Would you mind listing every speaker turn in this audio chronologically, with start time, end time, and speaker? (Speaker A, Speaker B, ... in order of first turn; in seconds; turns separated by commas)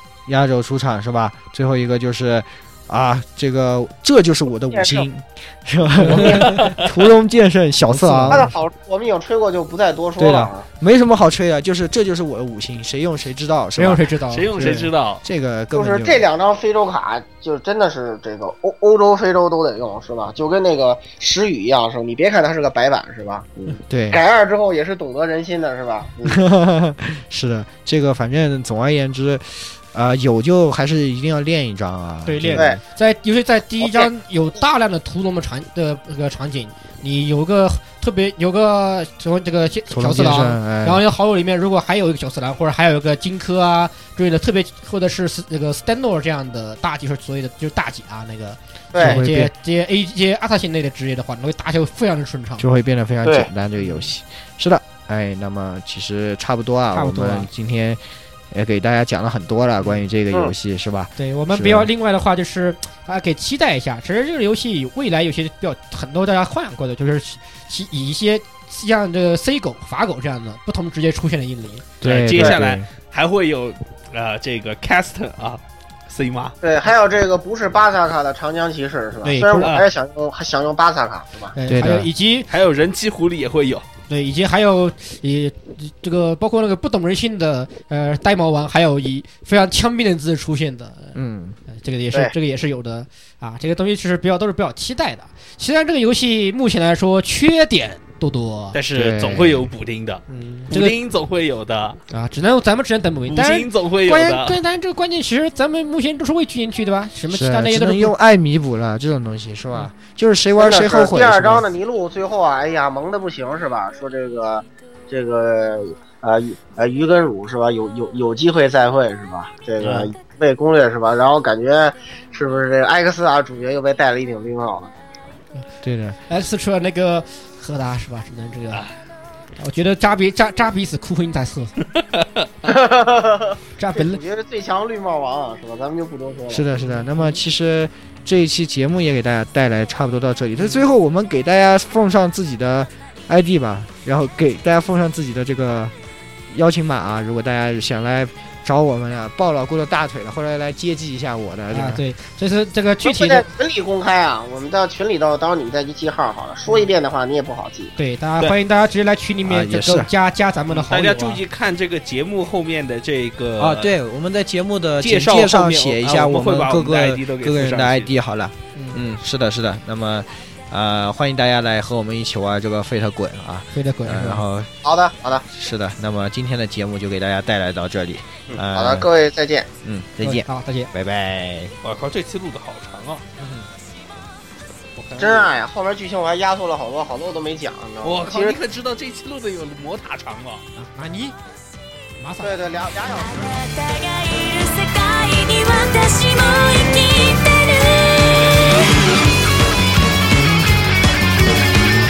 Speaker A: 0.3-8.5, Speaker B: 4.7-5.0, Speaker C: 6.0-6.8, Speaker C: 7.9-8.5, Speaker B: 8.3-10.6, Speaker A: 10.2-16.3, Speaker C: 13.8-14.5, Speaker D: 14.3-15.2, Speaker B: 15.7-26.4, Speaker A: 23.9-24.2, Speaker A: 26.2-32.8, Speaker C: 32.2-52.6, Speaker B: 32.5-32.8, Speaker B: 33.8-34.1, Speaker A: 39.9-41.0, Speaker B: 48.9-49.2, Speaker A: 49.0-49.5, Speaker A: 52.6-61.9, Speaker B: 53.2-53.5, Speaker C: 53.8-54.1, Speaker C: 56.9-57.5, Speaker C: 61.2-71.8, Speaker A: 72.0-72.9, Speaker D: 72.0-76.5, Speaker B: 76.6-81.5, Speaker C: 79.2-79.7, Speaker D: 79.6-79.9, Speaker C: 81.5-82.5, Speaker A: 81.7-82.1, Speaker D: 82.5-83.8, Speaker C: 84.1-91.2, Speaker A: 91.1-91.6, Speaker C: 91.7-98.8, Speaker D: 98.7-102.0, Speaker A: 98.9-99.7, Speaker C: 100.3-100.9, Speaker C: 102.1-108.1, Speaker D: 103.3-104.6, Speaker A: 107.3-111.6, Speaker B: 110.5-124.9, Speaker C: 119.8-120.1, Speaker A: 125.8-126.2, Speaker C: 126.3-128.9, Speaker C: 129.6-131.7, Speaker D: 132.0-132.5, Speaker B: 132.6-136.8, Speaker C: 133.8-134.2, Speaker A: 136.5-145.9, Speaker C: 136.9-137.4, Speaker C: 140.6-140.8, Speaker A: 146.5-152.0, Speaker C: 151.7-153.4, Speaker B: 153.0-157.9, Speaker C: 158.0-161.4, Speaker A: 159.4-160.1, Speaker D: 160.7-163.9, Speaker A: 163.6-174.7, Speaker D: 165.0-168.1, Speaker C: 168.7-169.0, Speaker C: 173.7-174.4, Speaker B: 174.8-175.4, Speaker A: 175.5-179.1, Speaker B: 178.6-179.7, Speaker A: 179.8-181.7, Speaker C: 180.2-180.9, Speaker D: 181.8-183.2, Speaker A: 183.4-183.7, Speaker D: 185.0-185.5, Speaker B: 185.2-188.6, Speaker D: 188.0-190.6, Speaker C: 190.8-191.3, Speaker C: 192.2-192.6, Speaker B: 192.4-193.6, Speaker E: 193.1-198.9